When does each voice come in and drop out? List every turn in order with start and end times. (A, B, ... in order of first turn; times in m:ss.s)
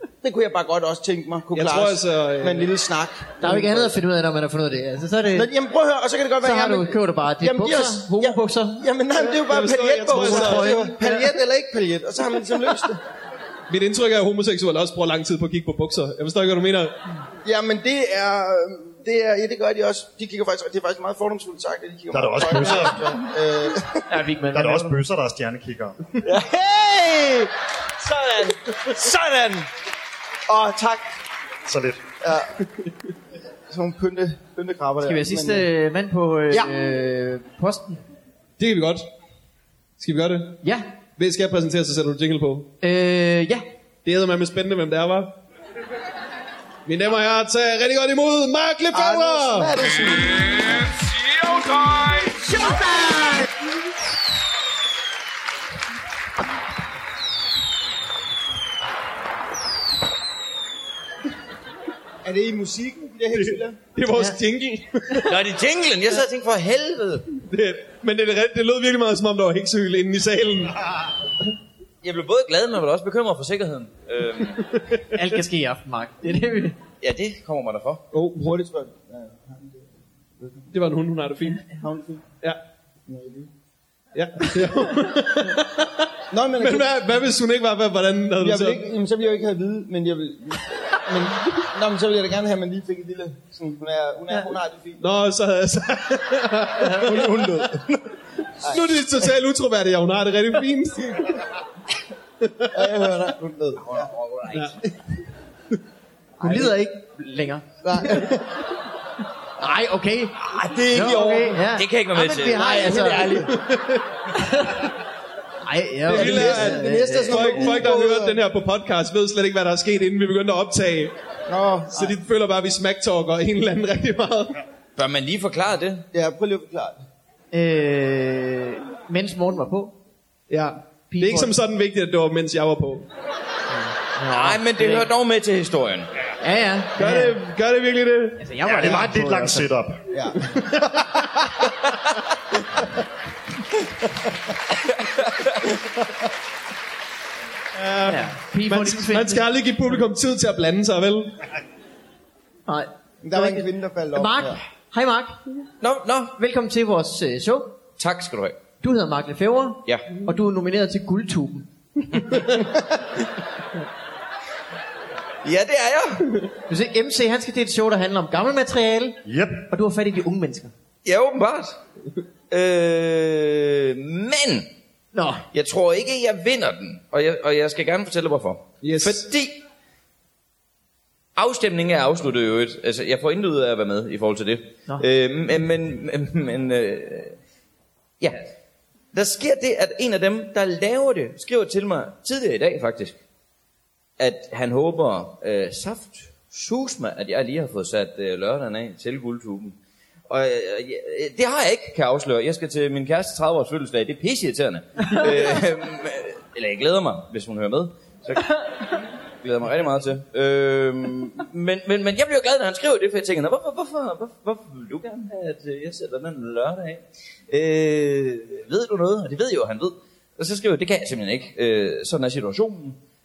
0:00.2-0:03.7 A
0:01.5-0:02.7 B
0:03.4-0:05.5 C
0:03.5-0:03.8 B
0:05.3-0:13.0 A
0:06.4-0:08.8 C
0:09.3-0:10.9 B
0:10.1-0:11.3 C
0:13.7-0:17.0 B
0:17.4-0:24.0 A
0:22.1-0:23.2 D
0:24.1-0:25.0 C
0:24.5-0:26.0 D
0:26.2-0:29.7 A
0:30.5-0:31.2 A
0:31.6-0:32.0 D
0:32.2-0:32.6 A
0:33.7-0:35.6 A
0:35.0-0:38.0 C
0:38.6-0:39.0 B
0:40.0-0:40.6 B
0:40.6-0:40.9 C
0:41.2-0:42.7 B
0:42.8-0:43.6 C
0:44.0-0:45.4 B
0:46.8-0:49.8 B
0:48.9-0:51.0 A
0:51.5-0:52.2 E
0:52.7-0:53.4 C
1:02.2-1:03.8 A
1:03.3-1:05.3 B
1:04.1-1:04.4 C
1:05.2-1:07.3 E
1:07.3-1:10.8 B
1:12.0-1:14.6 E
1:14.7-1:15.1 B
1:15.1-1:16.8 C
1:17.0-1:18.0 E
1:18.1-1:20.7 A
1:20.7-1:21.6 B
1:21.6-1:22.3 A
1:23.1-1:23.5 A
1:24.1-1:28.8 B
1:26.3-1:27.1 A
1:28.4-1:35.0 A
1:35.0-1:37.8 B
1:36.9-1:38.1 A
1:38.6-1:39.3 A
1:38.6-1:41.2 B
1:42.4-1:42.7 B
1:42.7-1:44.1 A
1:43.8-1:44.8 E
1:44.5-1:44.8 B
1:46.4-1:48.3 C
1:46.4-1:46.7 A
1:47.8-1:48.6 A
1:49.6-1:53.4 C
1:50.4-1:51.7 A
1:51.7-1:52.8 E
1:52.5-1:53.7 A
1:53.5-1:54.0 B
1:54.3-1:54.9 C
1:55.6-1:57.8 C
1:56.1-2:01.1 B
1:56.1-1:58.4 A
2:01.5-2:02.2 A
2:01.9-2:04.6 B
2:05.0-2:06.0 E
2:06.1-2:07.0 A
2:07.5-2:09.9 C
2:10.5-2:13.1 B
2:11.1-2:11.5 C
2:13.7-2:15.1 C
2:14.3-2:16.1 E
2:16.4-2:17.4 C
2:17.0-2:18.5 B
2:18.4-2:19.7 C
2:18.6-2:20.0 D
2:20.1-2:20.8 A
2:25.0-2:25.5 E
2:27.7-2:31.4 B
2:28.0-2:29.5 C
2:32.7-2:35.4 C
2:33.2-2:34.6 A
2:35.8-2:36.3 E
2:36.4-2:37.8 C
2:38.0-2:38.6 E
2:38.8-2:41.7 C
2:45.4-2:46.3 E
2:46.7-2:50.7 C
2:49.2-2:49.6 D
2:51.0-2:51.8 E
2:52.5-2:54.7 E
2:55.1-2:55.4 C
2:55.5-2:59.6 E
2:58.8-2:59.3 B
3:01.4-3:07.4 E
3:08.2-3:08.5 E
3:09.1-3:13.2 E
3:14.2-3:19.7 E
3:20.3-3:28.6 E
3:29.4-3:43.0 E